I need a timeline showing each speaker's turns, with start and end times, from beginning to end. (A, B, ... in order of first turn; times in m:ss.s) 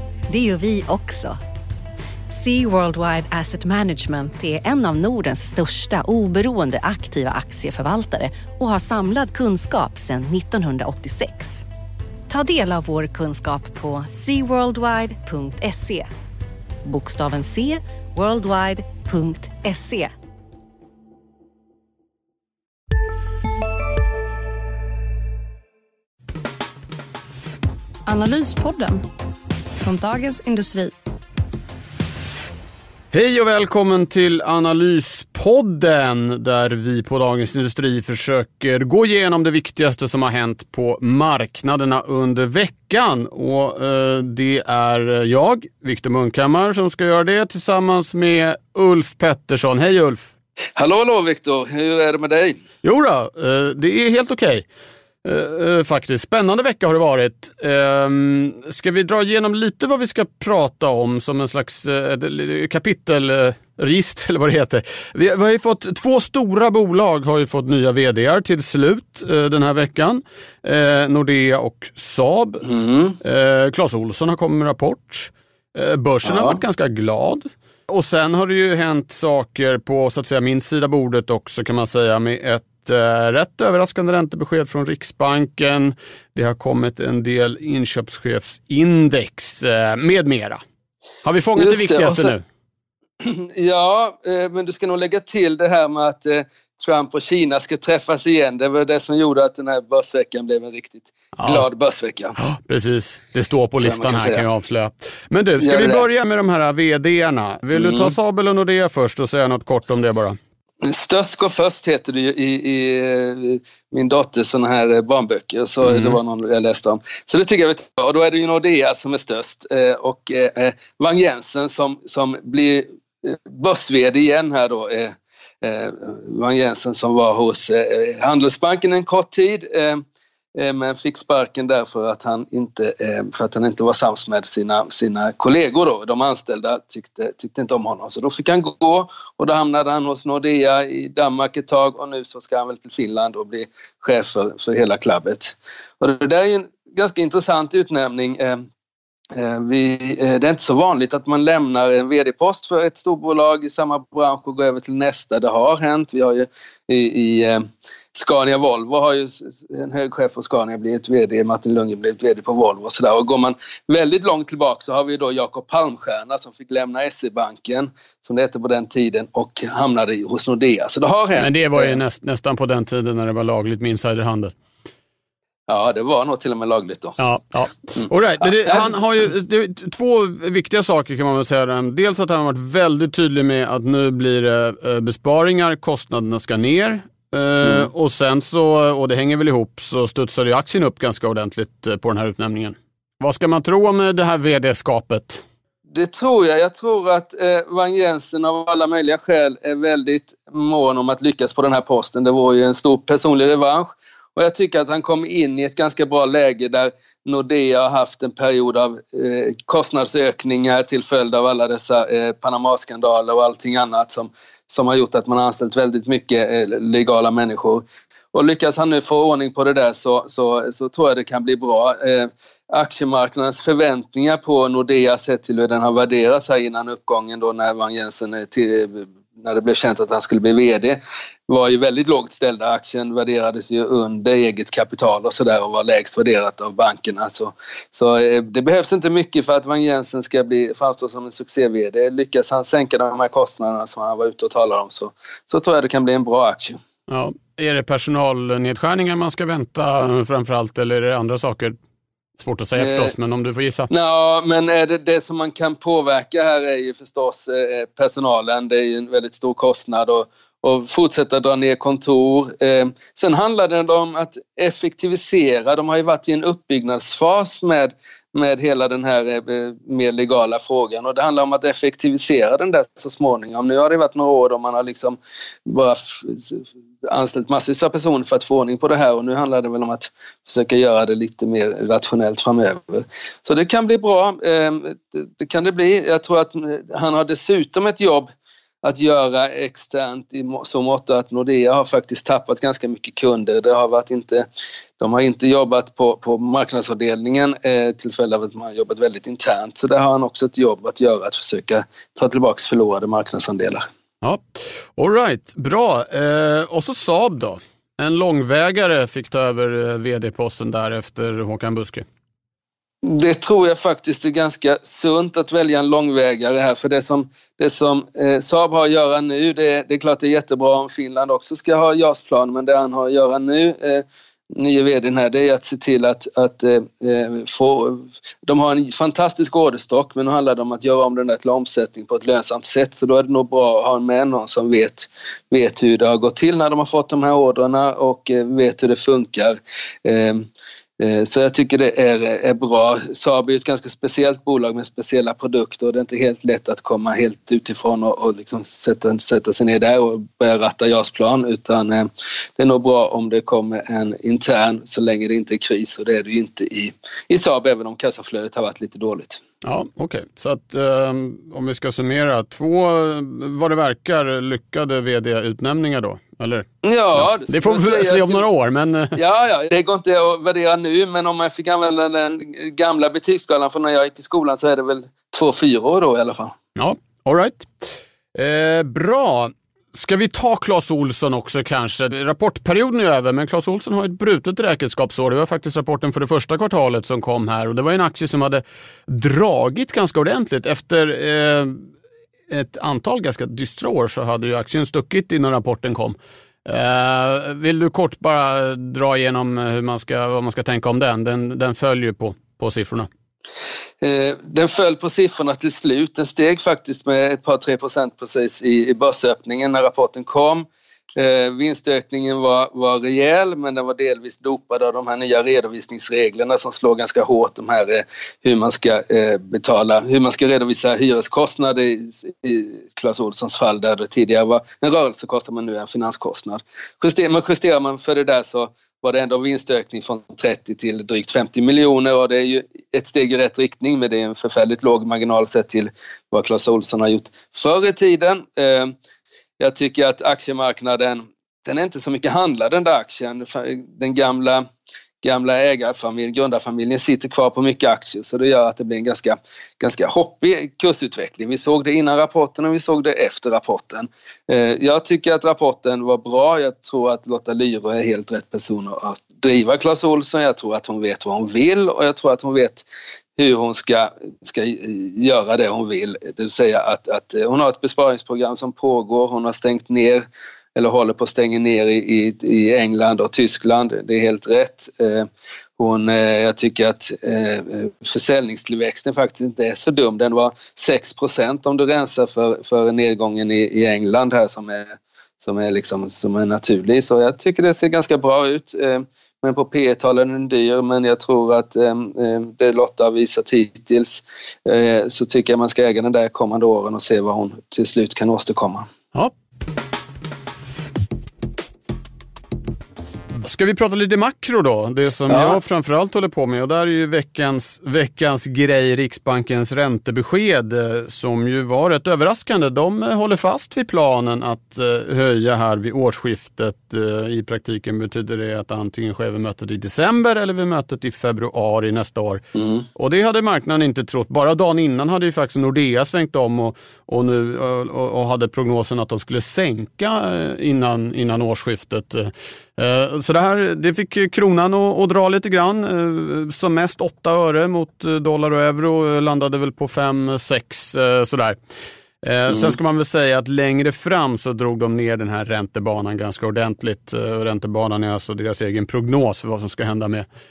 0:00.3-0:01.4 A
0:02.3-0:11.6 A
0:12.3-0:16.1 A
0:16.8-0:20.1 A
0:28.0-0:29.0 B
0:29.8-0:30.9 B
0:33.1-0:50.3 C
0:50.8-0:52.6 D
0:52.8-0:54.6 C
0:55.2-1:12.6 C
1:12.6-1:13.2 D
1:13.2-1:30.6 C
1:16.2-1:16.6 D
1:31.2-1:32.4 C
1:31.6-1:32.3 D
1:33.2-1:42.4 D
1:41.4-1:41.6 C
1:42.4-1:50.4 C
1:43.8-1:44.4 D
1:45.6-1:46.0 D
1:47.7-1:48.1 D
1:50.8-2:10.0 D
1:55.8-1:56.2 C
2:10.5-2:28.6 D
2:29.3-2:37.6 D
2:38.1-2:52.0 D
2:51.4-2:54.5 C
2:55.7-2:57.2 D
2:57.2-3:15.4 C
2:58.0-2:59.0 D
3:07.6-3:07.9 D
3:15.9-4:06.8 D
4:07.1-4:11.8 C
4:12.4-4:13.9 C
4:12.8-4:13.1 D
4:13.9-4:48.3 D
4:48.8-4:54.4 D
4:55.0-5:03.8 D
5:04.2-5:12.0 C
5:13.0-5:40.5 D
5:41.0-5:59.4 D
5:59.6-6:09.2 C
6:06.8-6:08.4 D
6:09.2-6:16.5 D
6:16.8-6:31.8 C
6:32.5-6:43.1 C
6:44.0-7:18.9 D
7:19.6-7:24.6 D
7:25.2-7:42.8 D
7:43.4-7:55.3 D
7:55.8-8:18.9 D
8:23.4-8:42.4 C
8:25.3-8:25.6 D
8:42.6-8:42.8 D
8:42.9-9:01.6 C
9:02.2-9:10.2 C